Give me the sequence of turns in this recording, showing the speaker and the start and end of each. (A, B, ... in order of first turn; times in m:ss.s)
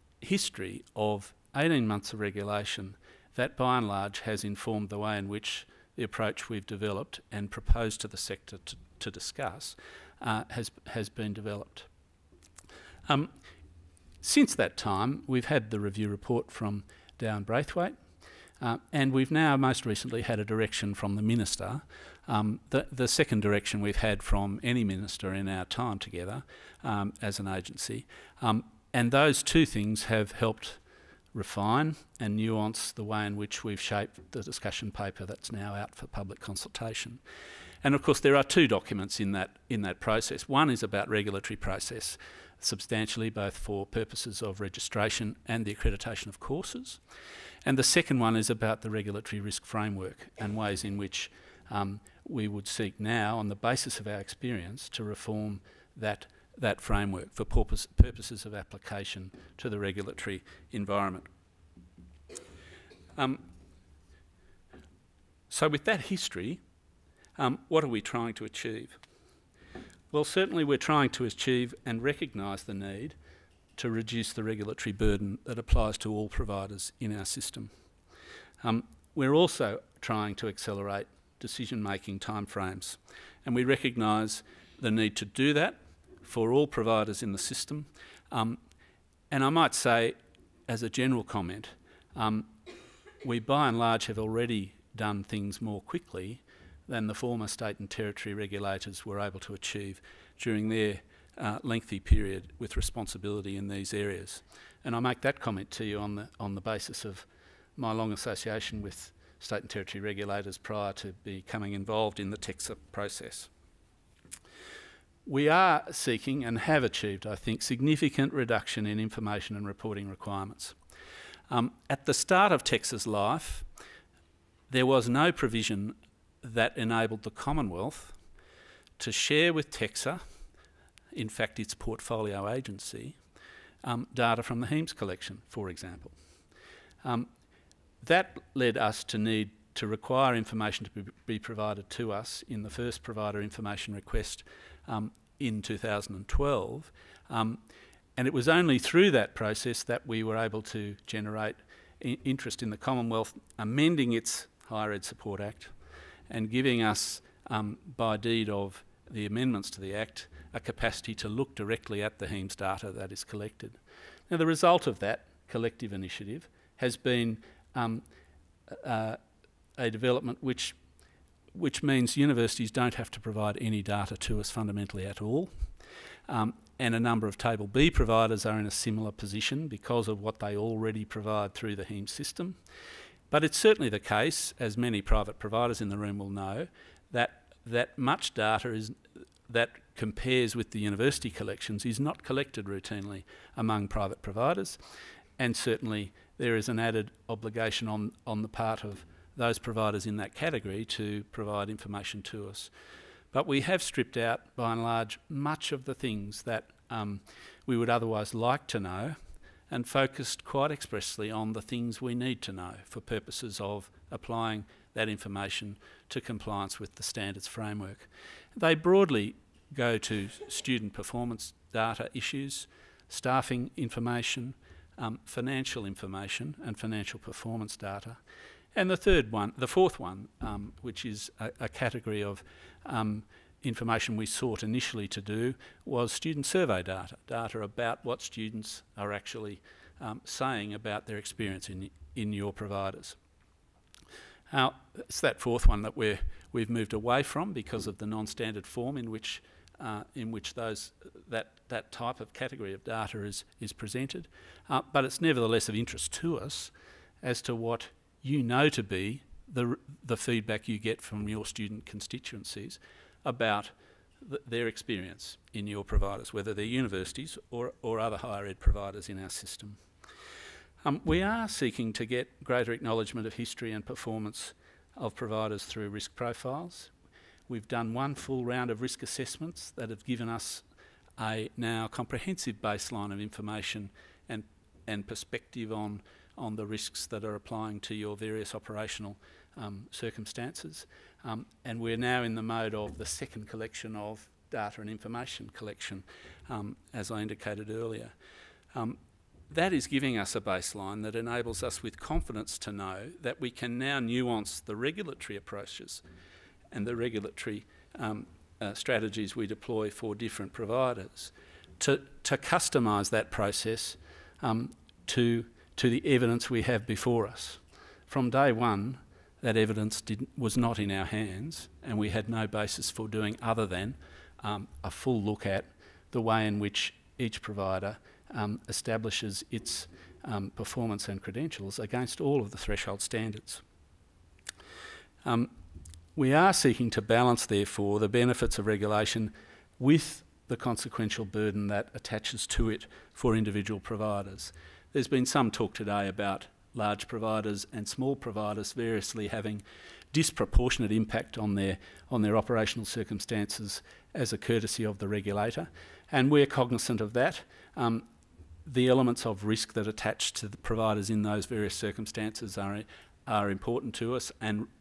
0:00.2-0:11.9 A
0:13.1-0:13.3 A
0:14.2-0:18.0 A
0:18.6-0:30.8 A
0:31.3-0:37.2 A
0:37.8-0:47.0 A
0:47.6-1:01.3 A
1:03.2-1:03.4 A
1:05.5-1:06.6 A
1:07.4-1:09.0 A
1:10.1-1:13.2 A
1:13.8-1:17.7 A
1:18.6-1:28.6 A
1:29.3-1:30.2 A
1:30.7-1:32.5 A
1:33.2-1:53.5 A
1:55.3-2:00.8 A
2:01.5-2:03.7 A
2:04.7-2:08.2 A
2:09.0-2:10.2 A
2:11.1-2:13.2 A
2:13.8-2:16.2 A
2:17.0-2:17.3 A
2:18.0-2:27.6 A
2:28.2-2:35.7 A
2:36.3-2:48.0 A
2:48.7-2:49.2 A
2:49.8-2:50.8 A
2:51.5-2:55.5 A
2:56.3-3:02.6 A
3:03.3-3:14.8 A
3:15.4-3:22.7 A
3:23.3-3:29.2 A
3:29.7-3:48.2 A
3:48.7-4:03.2 A
4:04.5-4:29.8 A
4:30.8-4:36.9 A
4:37.5-4:40.6 A
4:41.2-4:58.1 A
4:58.7-4:59.0 A
4:59.5-5:06.0 A
5:06.7-5:33.6 A
5:35.2-5:35.5 A
5:36.2-5:58.1 A
5:58.6-6:04.7 A